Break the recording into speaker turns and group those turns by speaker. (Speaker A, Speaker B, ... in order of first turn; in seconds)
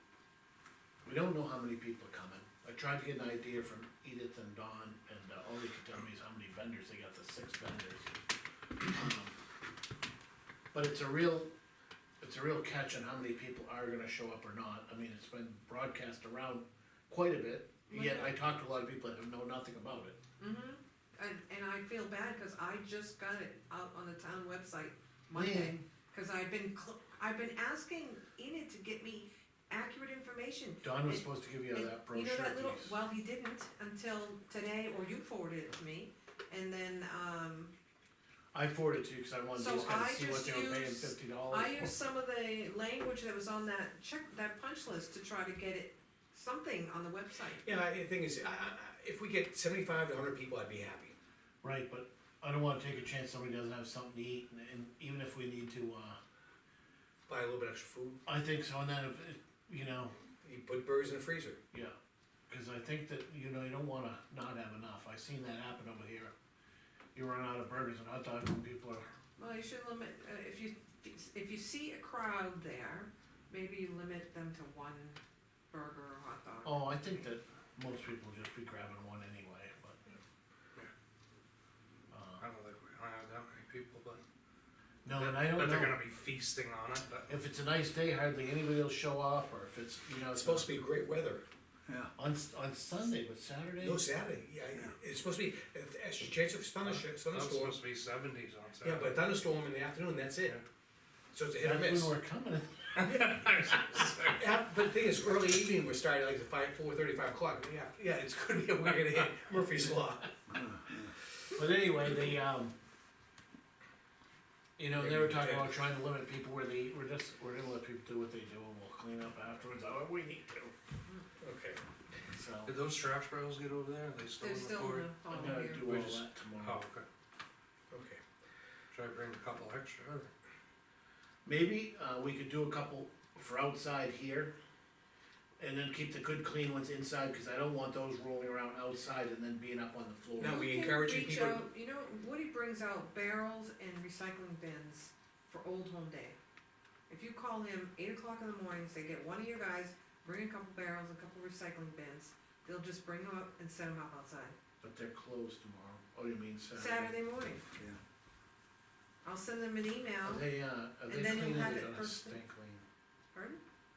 Speaker A: 1.0-8.1, 8.9-9.3, 10.7-11.5, 12.2-20.2, 25.3-25.8, 30.8-33.0, 38.5-41.9, 51.6-56.2, 58.2-60.1, 62.5-66.3, 67.1-69.0, 76.6-80.2, 82.1-82.4, 85.0-86.0, 87.3-90.8, 92.1-94.1, 101.6-103.7, 111.5-112.7, 114.8-120.7, 122.3-122.7, 125.3-126.8, 131.4-134.5, 135.6-140.7, 154.8-157.2, 160.2-162.8
Speaker B: 17.9-18.3, 20.4-37.7, 39.5-47.6, 69.4-75.2, 75.7-76.8, 124.4-125.9, 140.5-146.4, 147.1-154.5, 156.7-157.7, 159.2-160.4, 161.1-162.4, 163.3-163.6
Speaker C: 47.6-51.1, 57.3-58.2, 60.4-61.6, 90.3-91.4, 93.8-97.8, 98.8-100.6, 101.3-102.1, 104.3-110.5, 114.9-115.8, 121.4-121.8, 127.9-128.2, 140.4-141.7
Speaker D: 82.4-84.2, 85.1-87.3, 96.8-99.2, 102.9-104.5, 122.6-125.1, 125.8-127.0, 128.9-130.3